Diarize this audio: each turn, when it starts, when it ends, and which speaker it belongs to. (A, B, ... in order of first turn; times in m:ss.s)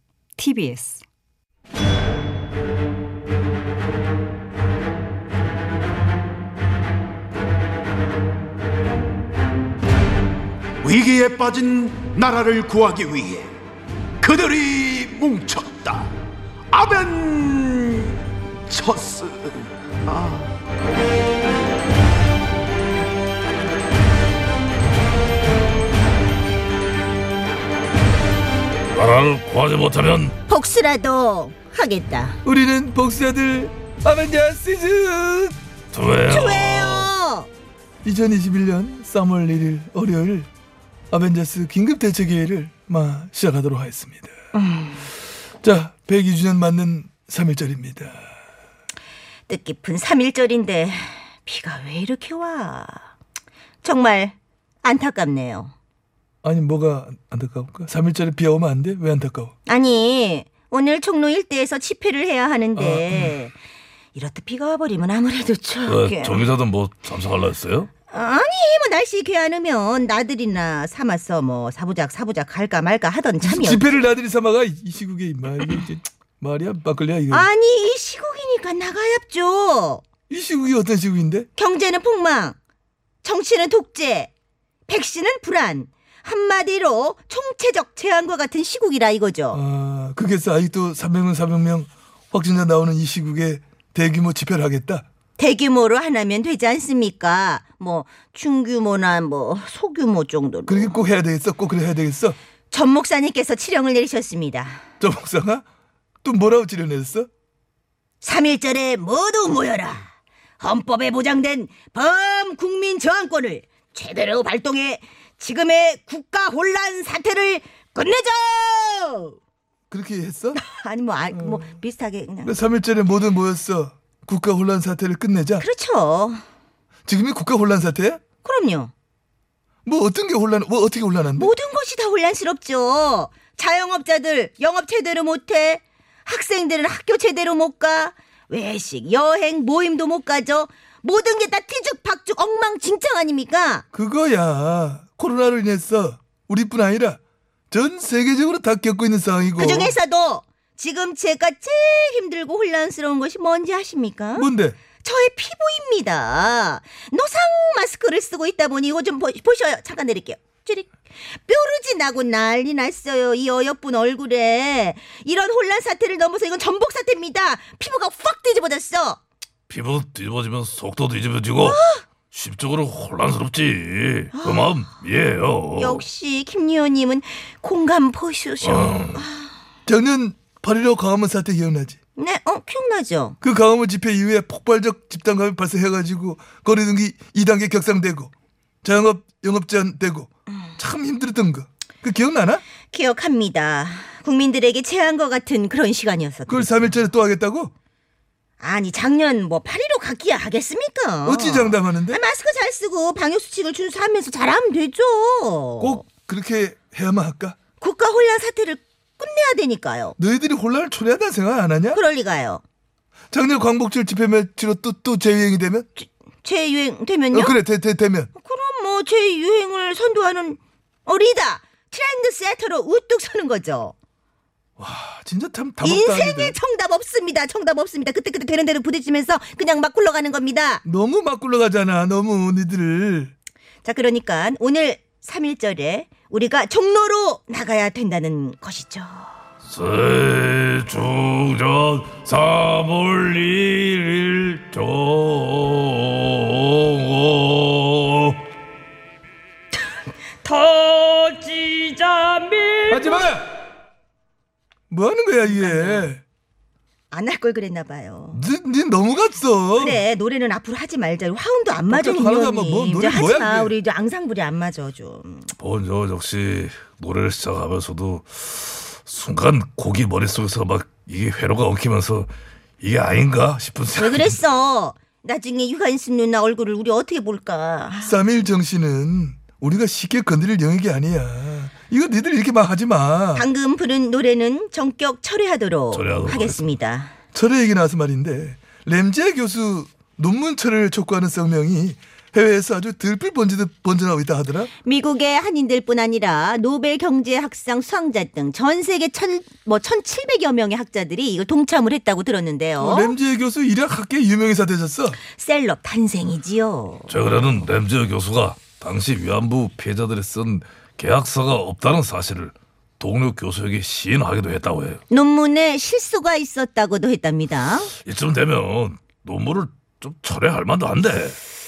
0:00.4-0:01.0 A
0:10.8-0:13.5 B
0:14.2-0:16.1 B
0:16.7-0:18.2 B
0:18.7-0:19.5 B
0:20.1-0:20.4 B
0:28.9-0:30.4 C
0:30.5-0:32.4 D
0:32.4-0:35.5 E
0:35.9-0:37.1 C
0:36.3-0:37.5 D
0:38.0-0:40.5 E
0:41.1-0:44.3 E
0:44.5-0:45.1 D
0:45.6-0:48.2 E
0:49.5-0:53.1 D
0:53.8-0:55.7 D
0:56.4-0:59.5 E
0:59.7-1:03.5 D
1:02.8-1:03.4 E
1:04.1-1:06.4 D
1:05.9-1:07.9 C
1:08.1-1:13.8 D
1:13.4-1:17.5 E
1:17.3-1:20.0 D
1:20.3-1:21.5 E
1:21.6-1:22.6 D
1:23.2-1:24.3 D
1:24.9-1:29.6 D
1:29.5-1:35.0 E
1:35.4-1:41.0 D
1:40.7-1:42.4 E
1:42.7-1:44.8 D
1:45.0-1:45.6 E
1:46.2-1:47.3 E
1:48.2-1:59.3 D
1:59.9-2:00.6 E
2:00.5-2:02.6 D
2:01.3-2:01.7 E
2:02.4-2:05.6 E
2:05.6-2:06.4 D
2:07.1-2:08.2 E
2:08.4-2:08.9 D
2:09.8-2:11.5 E
2:11.3-2:23.8 D
2:23.9-2:27.2 E
2:27.7-2:29.9 E
2:29.6-2:34.5 D
2:34.4-2:34.8 E
2:35.0-2:49.2 D
2:49.7-2:56.0 C
2:51.6-2:52.0 D
2:54.3-2:54.8 D
2:55.8-2:59.5 D
2:58.6-2:59.2 C
2:59.8-3:02.0 E
3:02.2-3:03.4 D
3:03.4-3:08.3 E
3:08.8-3:12.6 E
3:12.9-3:16.9 D
3:16.5-3:17.7 E
3:18.6-3:26.0 D
3:21.2-3:22.2 E
3:25.8-3:27.6 E
3:27.8-3:30.2 D
3:30.2-3:32.0 E
3:31.9-3:32.6 D
3:33.3-3:35.8 E
3:36.0-3:37.6 D
3:37.3-3:38.3 E
3:38.3-3:43.9 D
3:44.8-3:46.6 E
3:45.8-3:50.8 D
3:50.8-3:53.3 E
3:53.8-3:59.3 D
3:59.6-4:08.4 C
4:10.4-4:13.1 A
4:12.9-4:13.4 E
4:14.9-4:16.2 E
4:15.4-4:16.1 D
4:17.1-4:18.4 D
4:18.3-4:20.0 E
4:19.8-4:25.5 D
4:21.9-4:23.7 E
4:25.6-4:34.4 C
4:33.9-4:38.2 D
4:38.0-4:43.5 E
4:43.3-4:47.1 D
4:45.9-4:46.8 C
4:47.3-4:54.7 E
4:54.8-5:03.1 D
5:02.8-5:05.2 E
5:05.3-5:07.2 D
5:07.1-5:15.0 C
5:15.1-5:17.9 D
5:18.0-5:21.4 C